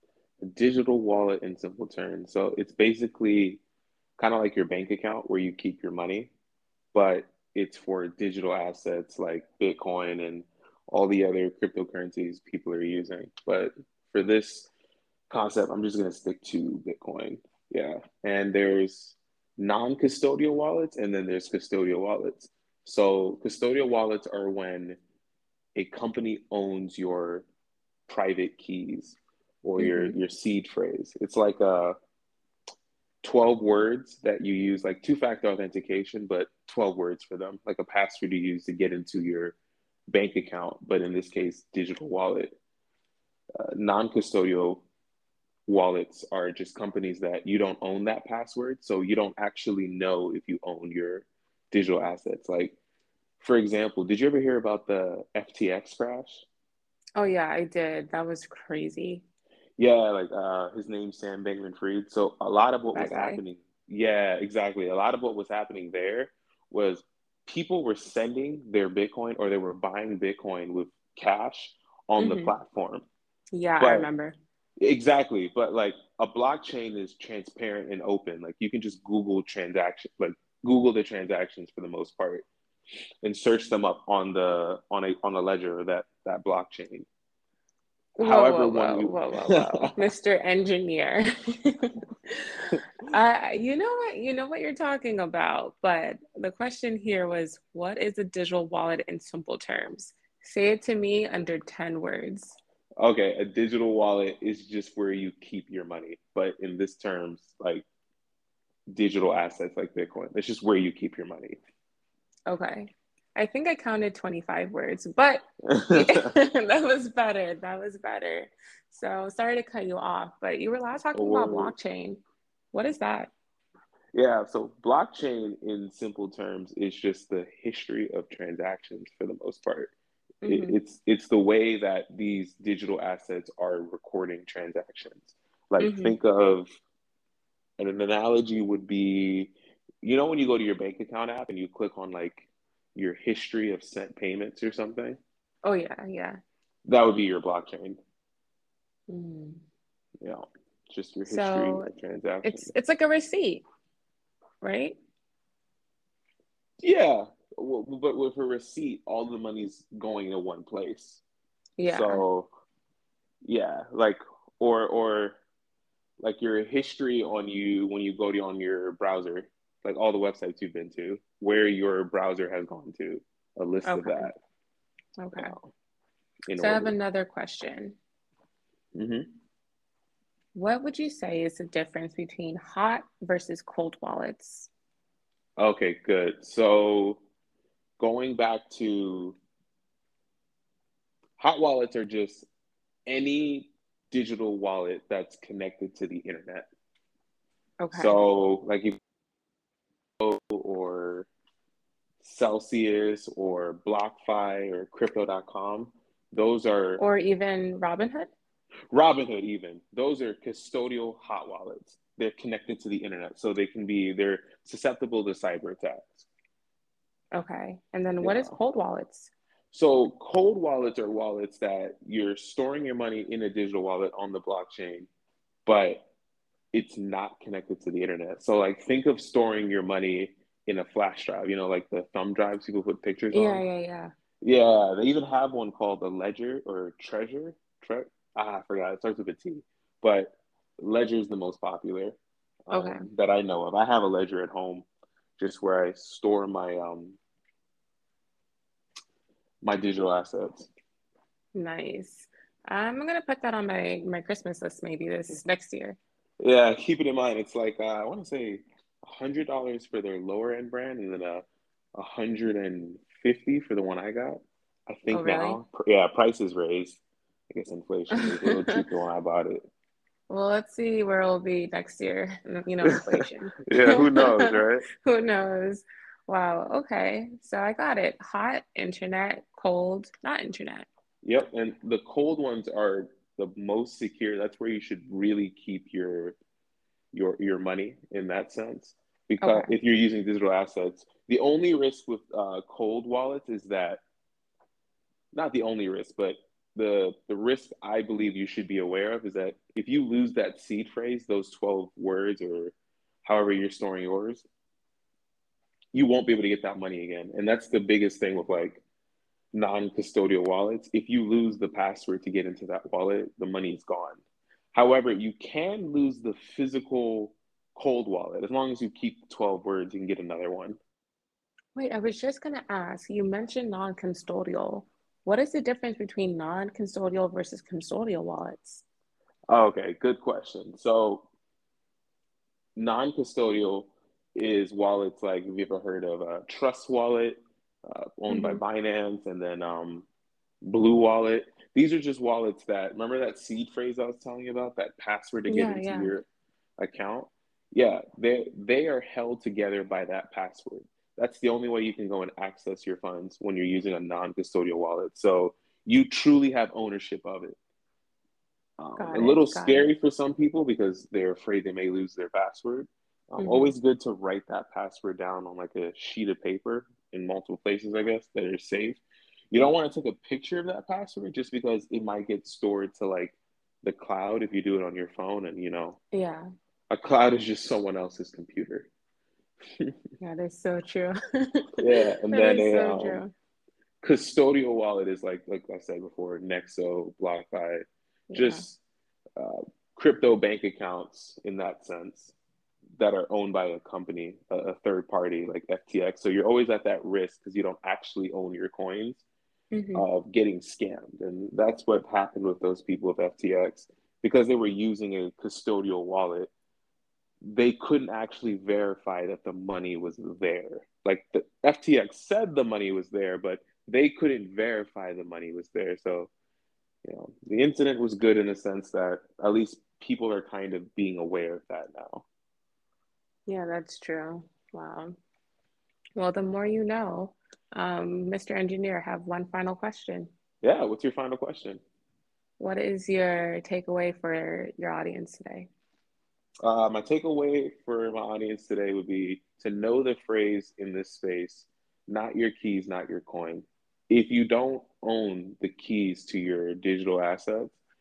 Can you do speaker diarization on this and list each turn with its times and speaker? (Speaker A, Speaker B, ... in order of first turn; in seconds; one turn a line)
Speaker A: 0.4-3.6
Speaker A: 4.2-6.3
Speaker A: 6.9-14.7
Speaker A: 15.3-25.0
Speaker A: 25.7-27.5
Speaker A: 28.1-31.9
Speaker B: 29.8-30.2
Speaker A: 33.2-39.5
Speaker A: 40.1-42.5
Speaker A: 43.6-44.8
Speaker A: 45.6-52.8
Speaker A: 53.4-56.4
Speaker B: 57.2-59.2
Speaker A: 59.8-73.1
Speaker B: 62.9-63.4
Speaker B: 72.2-72.5
Speaker B: 73.5-74.3
Speaker A: 73.8-74.1
Speaker A: 74.8-82.5
Speaker A: 83.2-87.1
Speaker B: 88.2-102.6
Speaker A: 88.2-89.9
Speaker A: 103.0-107.8
Speaker A: 108.9-111.6
Speaker B: 112.5-123.3
Speaker A: 115.7-116.3
Speaker A: 121.1-121.7
Speaker A: 124.1-129.9
Speaker B: 130.4-130.8
Speaker A: 130.4-136.8
Speaker B: 135.8-136.1
Speaker A: 137.8-145.2
Speaker B: 145.6-146.4
Speaker A: 146.8-148.0
Speaker B: 149.1-149.6
Speaker A: 150.2-152.7
Speaker B: 151.2-151.9
Speaker B: 152.4-153.6
Speaker B: 154.6-155.0
Speaker A: 156.8-161.2
Speaker B: 161.8-162.2
Speaker A: 161.8-162.5
Speaker A: 163.4-165.4
Speaker A: 166.2-174.4
Speaker B: 173.8-174.3
Speaker B: 175.2-175.5
Speaker A: 175.3-175.7
Speaker A: 176.5-176.9
Speaker B: 176.6-178.0
Speaker A: 178.9-179.3
Speaker B: 180.5-184.7
Speaker A: 185.6-187.2
Speaker A: 188.0-189.4
Speaker A: 191.4-192.5
Speaker A: 193.1-196.7
Speaker B: 197.8-198.2
Speaker A: 197.9-199.0
Speaker A: 200.2-201.3
Speaker A: 202.2-207.0
Speaker B: 207.0-208.3
Speaker A: 208.9-216.3
Speaker B: 217.3-219.3
Speaker A: 218.2-218.5
Speaker A: 219.7-225.1
Speaker A: 225.7-226.1
Speaker A: 226.7-233.6
Speaker B: 233.3-234.1
Speaker A: 234.4-242.2
Speaker A: 242.7-244.8
Speaker B: 242.7-243.0
Speaker A: 245.4-247.2
Speaker A: 249.6-250.7
Speaker B: 251.5-256.0
Speaker A: 256.4-269.6
Speaker B: 265.1-265.6
Speaker B: 268.2-268.7
Speaker B: 270.3-274.3
Speaker A: 273.7-274.8
Speaker B: 275.0-280.9
Speaker A: 281.2-286.4
Speaker A: 287.1-294.0
Speaker B: 289.4-289.7
Speaker A: 295.3-304.5
Speaker A: 305.9-308.8
Speaker A: 309.5-314.2
Speaker A: 314.7-320.8
Speaker B: 321.7-328.8
Speaker A: 329.5-331.3
Speaker A: 332.8-340.1
Speaker B: 338.3-338.6
Speaker A: 340.6-346.2
Speaker B: 345.5-346.1
Speaker A: 346.8-357.6
Speaker A: 358.8-376.0
Speaker B: 359.0-359.9
Speaker B: 363.4-363.7
Speaker B: 376.1-376.4
Speaker A: 376.9-378.9
Speaker B: 380.2-381.7
Speaker A: 381.8-383.2
Speaker B: 382.3-383.3
Speaker A: 384.0-388.8
Speaker B: 388.3-388.7
Speaker A: 389.4-392.3
Speaker A: 392.9-399.2
Speaker B: 399.7-400.1
Speaker A: 399.9-406.5
Speaker A: 407.4-416.3
Speaker A: 417.0-422.2
Speaker B: 423.5-425.1
Speaker B: 426.1-430.3
Speaker A: 430.6-431.8
Speaker B: 432.6-435.7
Speaker A: 436.6-447.8